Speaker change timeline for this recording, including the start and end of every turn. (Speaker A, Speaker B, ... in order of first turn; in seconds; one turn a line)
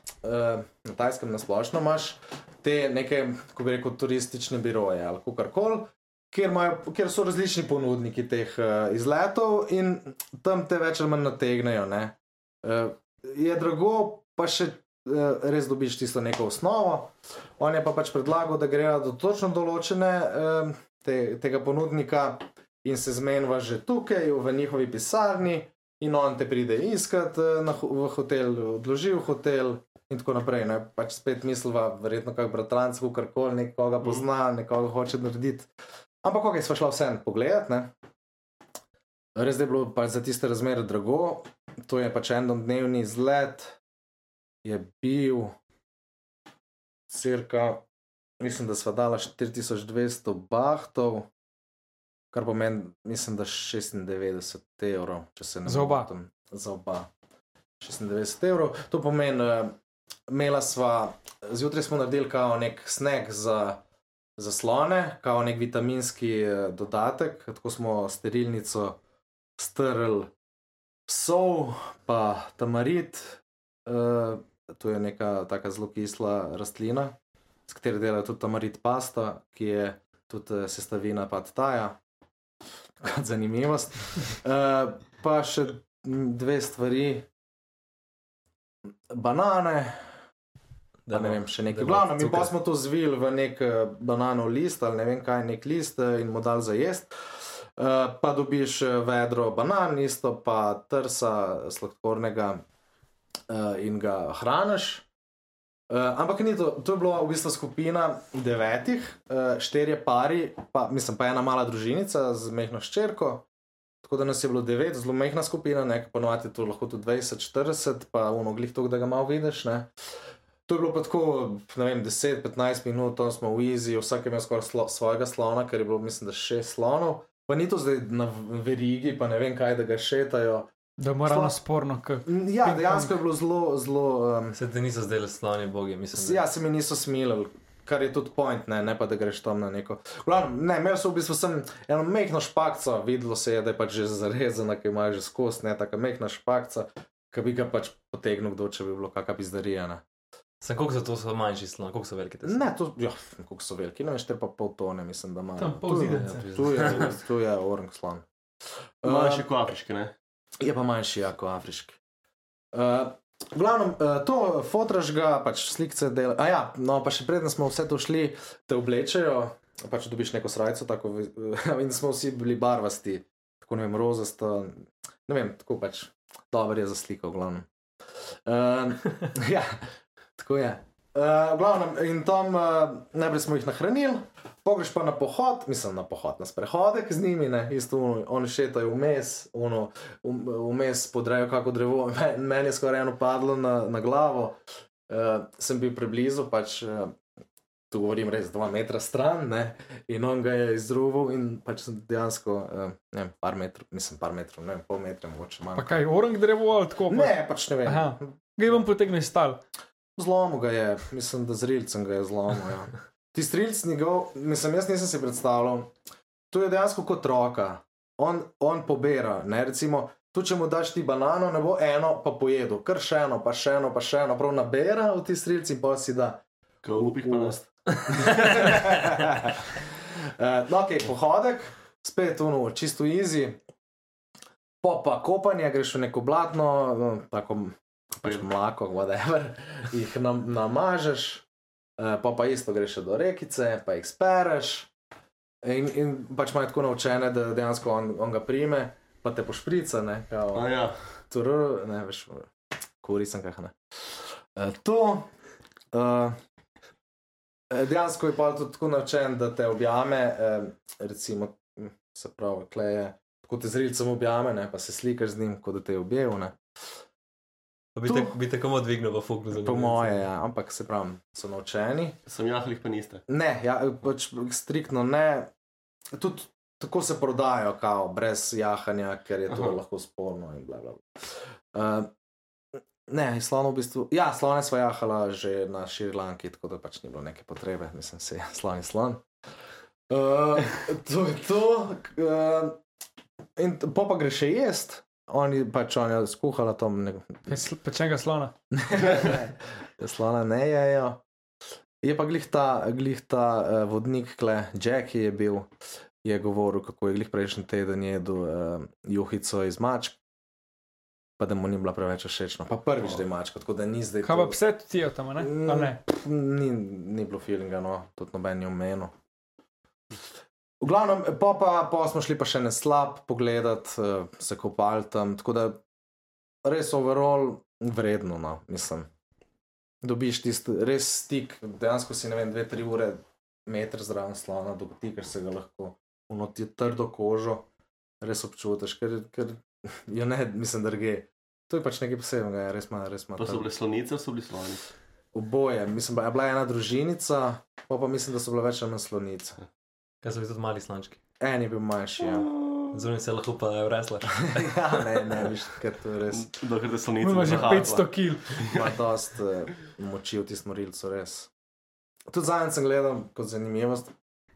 Speaker A: 0.2-35.7
Speaker A: 36.2-37.9
Speaker A: 39.4-43.8
Speaker A: 44.6-45.5
Speaker A: 47.1-47.8
Speaker A: 48.4-51.3
Speaker A: 52.3-57.1
Speaker B: 55.6-56.1
Speaker A: 57.8-59.8
Speaker A: 60.3-63.8
Speaker A: 64.4-69.0
Speaker A: 69.6-70.3
Speaker A: 71.1-77.1
Speaker A: 77.7-82.0
Speaker A: 83.0-87.2
Speaker A: 89.1-90.0
Speaker C: 91.1-92.5
Speaker A: 91.1-97.1
Speaker A: 97.8-102.6
Speaker A: 103.5-105.0
Speaker A: 105.9-113.5
Speaker A: 114.0-119.9
Speaker A: 120.7-130.7
Speaker B: 131.0-133.1
Speaker A: 131.2-131.6
Speaker A: 132.2-134.6
Speaker C: 134.5-136.4
Speaker A: 136.1-150.0
Speaker C: 150.6-152.6
Speaker A: 152.4-158.2
Speaker B: 155.6-156.7
Speaker D: 156.8-157.1
Speaker A: 159.0-159.4
Speaker D: 159.0-160.1
Speaker A: 160.6-162.0
Speaker A: 162.7-177.7
Speaker A: 178.4-194.6
Speaker A: 195.1-197.2
Speaker A: 197.9-206.1
Speaker B: 205.8-207.3
Speaker A: 207.1-208.3
Speaker B: 207.8-209.6
Speaker A: 210.2-215.9
Speaker A: 216.5-226.4
Speaker D: 226.8-227.6
Speaker A: 226.9-233.6
Speaker A: 234.8-241.4
Speaker A: 242.0-244.9
Speaker A: 245.6-250.7
Speaker D: 250.5-251.0
Speaker A: 251.3-252.5
Speaker A: 253.0-253.8
Speaker A: 254.5-255.3
Speaker A: 255.9-256.4
Speaker A: 257.7-266.6
Speaker C: 267.9-270.2
Speaker A: 268.0-268.4
Speaker A: 269.6-272.2
Speaker D: 272.3-273.2
Speaker A: 273.3-275.5
Speaker A: 276.1-282.1
Speaker D: 279.5-279.8
Speaker A: 283.1-289.2
Speaker A: 290.1-292.8
Speaker A: 293.6-297.6
Speaker B: 297.5-298.5
Speaker A: 298.7-301.2
Speaker A: 302.0-305.7
Speaker A: 306.2-310.2
Speaker A: 311.4-314.6
Speaker B: 314.2-316.0
Speaker A: 315.4-319.1
Speaker A: 320.8-325.8
Speaker A: 326.6-329.1
Speaker A: 330.0-337.6
Speaker A: 338.2-343.6
Speaker D: 343.4-344.9
Speaker A: 345.3-349.6
Speaker C: 350.2-351.2
Speaker A: 351.4-352.5
Speaker C: 352.9-355.3
Speaker A: 354.3-356.5
Speaker D: 356.3-358.9
Speaker B: 357.2-358.6
Speaker A: 357.4-357.9
Speaker A: 358.6-361.5
Speaker A: 362.3-364.1